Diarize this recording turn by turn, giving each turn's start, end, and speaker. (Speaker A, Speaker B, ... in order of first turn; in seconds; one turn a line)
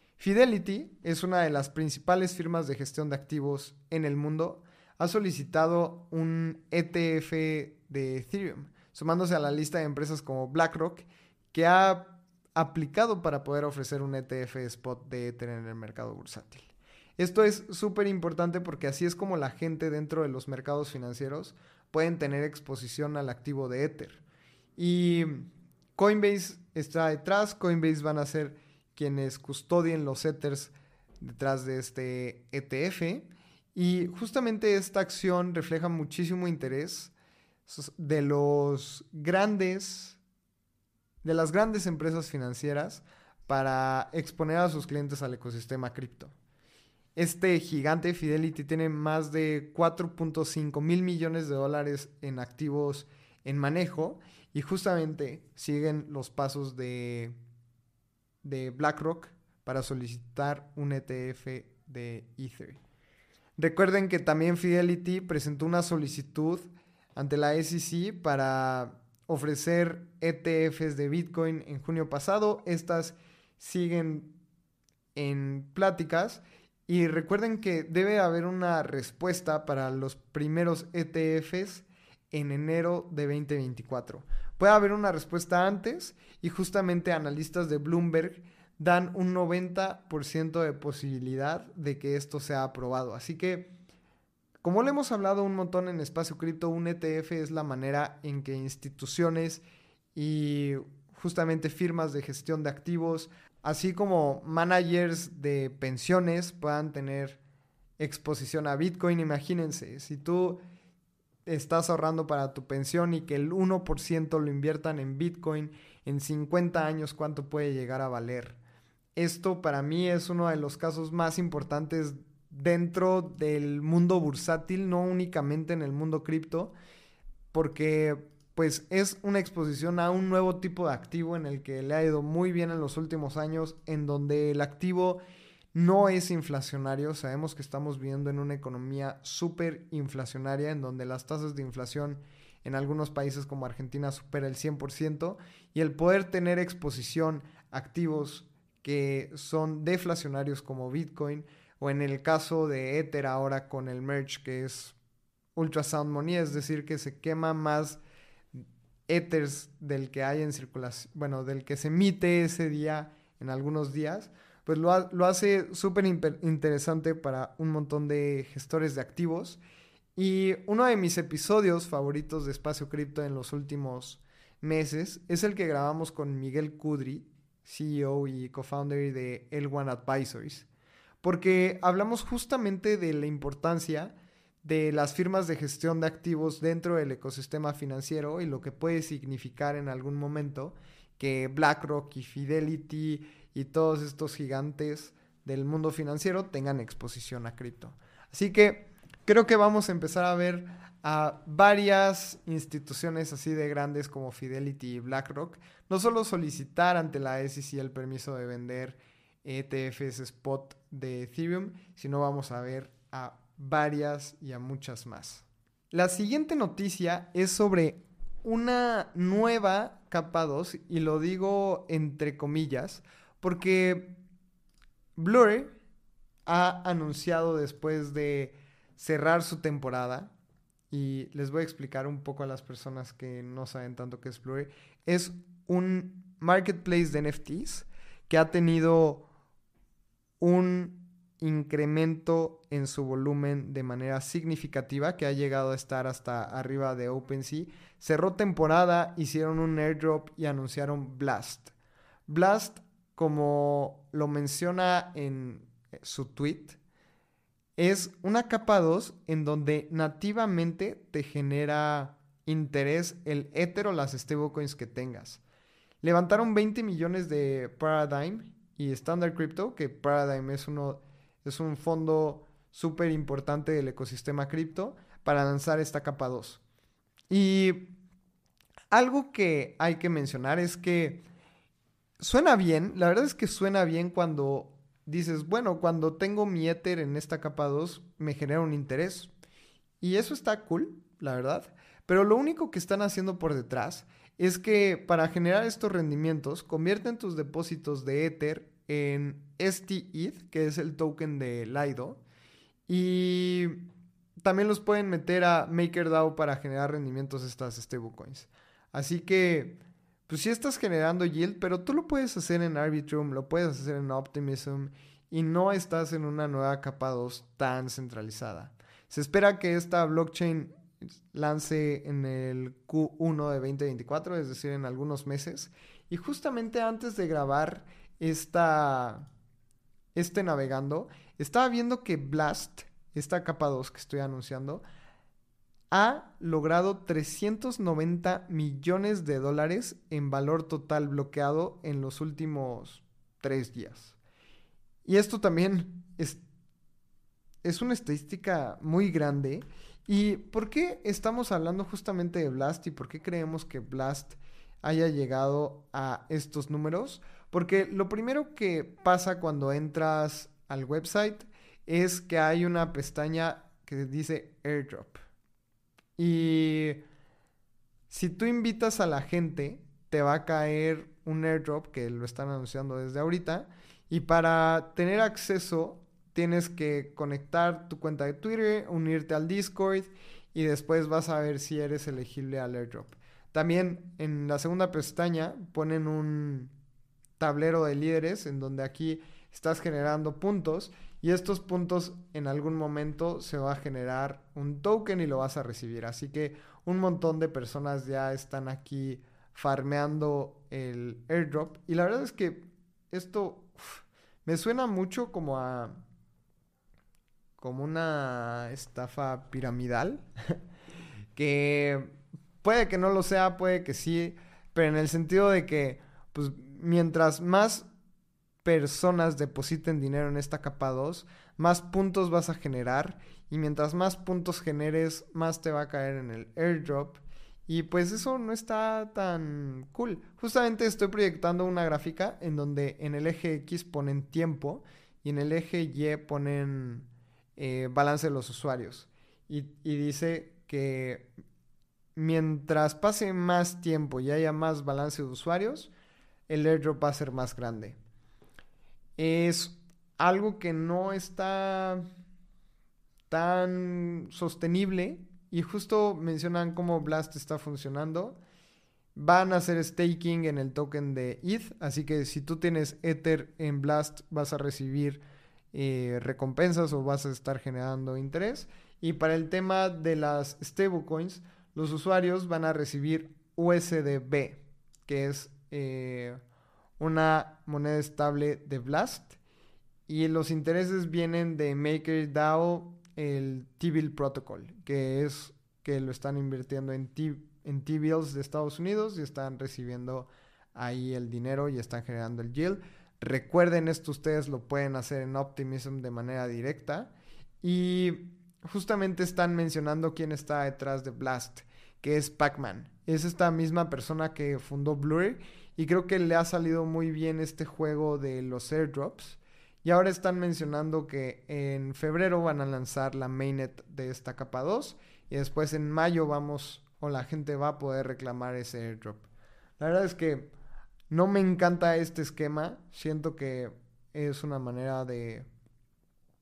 Speaker A: 0.2-24.2
Speaker A: 24.8-37.1
Speaker A: 37.6-40.2
Speaker A: 41.2-46.3
Speaker A: 47.1-57.4
Speaker A: 58.4-62.8
Speaker A: 63.6-74.4
Speaker A: 75.1-93.7
Speaker A: 94.6-99.6
Speaker A: 100.1-107.4
Speaker A: 108.0-110.6
Speaker A: 111.5-118.6
Speaker A: 119.2-126.7
Speaker A: 127.5-135.2
Speaker A: 135.7-154.9
Speaker A: 155.6-158.0
Speaker A: 158.5-169.6
Speaker A: 170.2-180.7
Speaker A: 181.2-224.2
Speaker A: 225.2-225.7
Speaker A: 226.4-230.3
Speaker A: 230.9-239.3
Speaker A: 240.4-251.7
Speaker A: 252.3-256.8
Speaker A: 257.8-265.4
Speaker A: 266.0-276.6
Speaker A: 277.3-277.9
Speaker A: 278.9-281.2
Speaker A: 282.2-289.3
Speaker A: 290.0-302.2
Speaker A: 302.9-303.9
Speaker A: 304.4-329.3
Speaker A: 330.1-334.8
Speaker A: 335.9-344.1
Speaker A: 345.0-346.4
Speaker A: 347.6-365.2
Speaker A: 366.2-367.0
Speaker A: 368.1-386.7
Speaker A: 387.4-406.0
Speaker A: 407.6-410.6
Speaker A: 411.3-417.9
Speaker A: 418.6-441.3
Speaker A: 442.1-445.9
Speaker A: 446.5-448.0
Speaker A: 449.2-452.1
Speaker A: 453.3-458.4
Speaker A: 459.1-476.4
Speaker A: 477.0-479.4
Speaker A: 480.1-519.3
Speaker A: 519.8-520.5
Speaker A: 521.1-525.5